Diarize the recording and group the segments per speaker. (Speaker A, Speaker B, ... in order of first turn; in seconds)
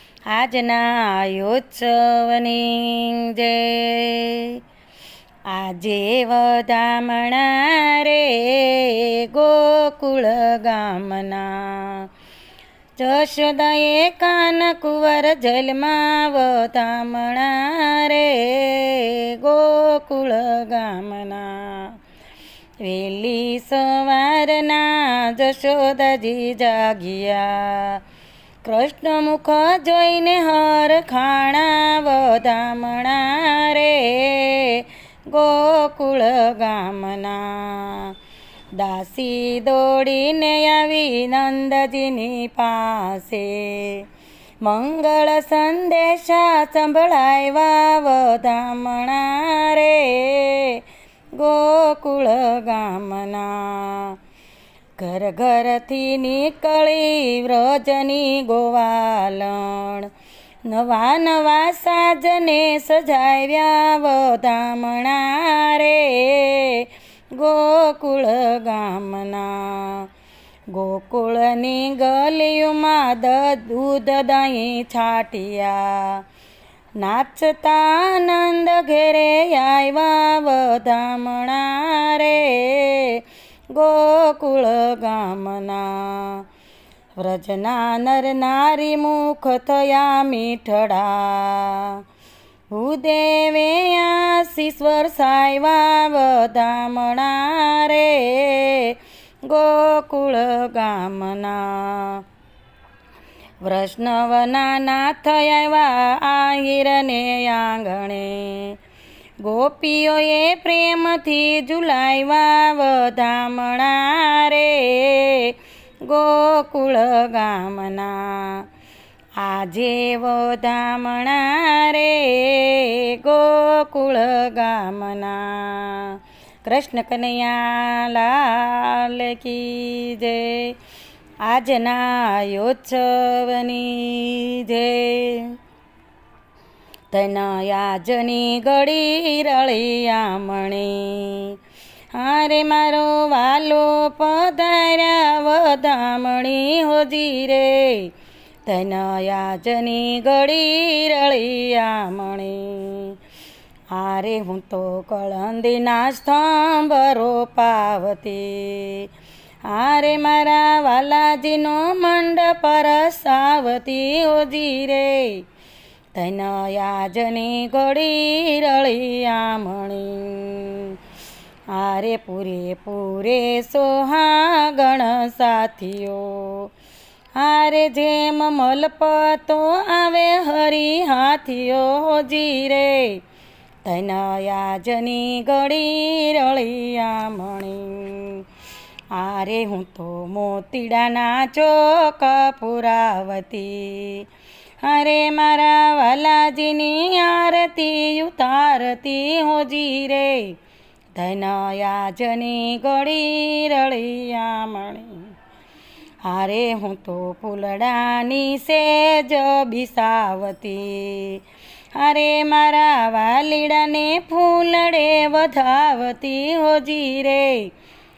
Speaker A: 0.3-4.6, 5.5-12.1, 13.0-22.0, 22.8-28.0, 28.6-38.1, 38.8-44.1, 44.6-50.8, 51.4-54.2, 55.0-60.1, 60.6-70.1, 70.7-76.2, 77.0-86.5, 87.2-92.0, 92.7-102.2, 103.6-108.8, 109.4-118.7, 119.4-130.8, 131.4-135.5, 137.1-141.6, 142.1-148.1, 148.7-153.2, 153.9-159.1, 159.7-165.4, 166.2-171.0, 171.7-176.7, 177.4-183.2, 183.8-188.4, 189.1-194.3, 194.8-200.6, 201.1-205.3, 206.3-211.4, 212.0-217.7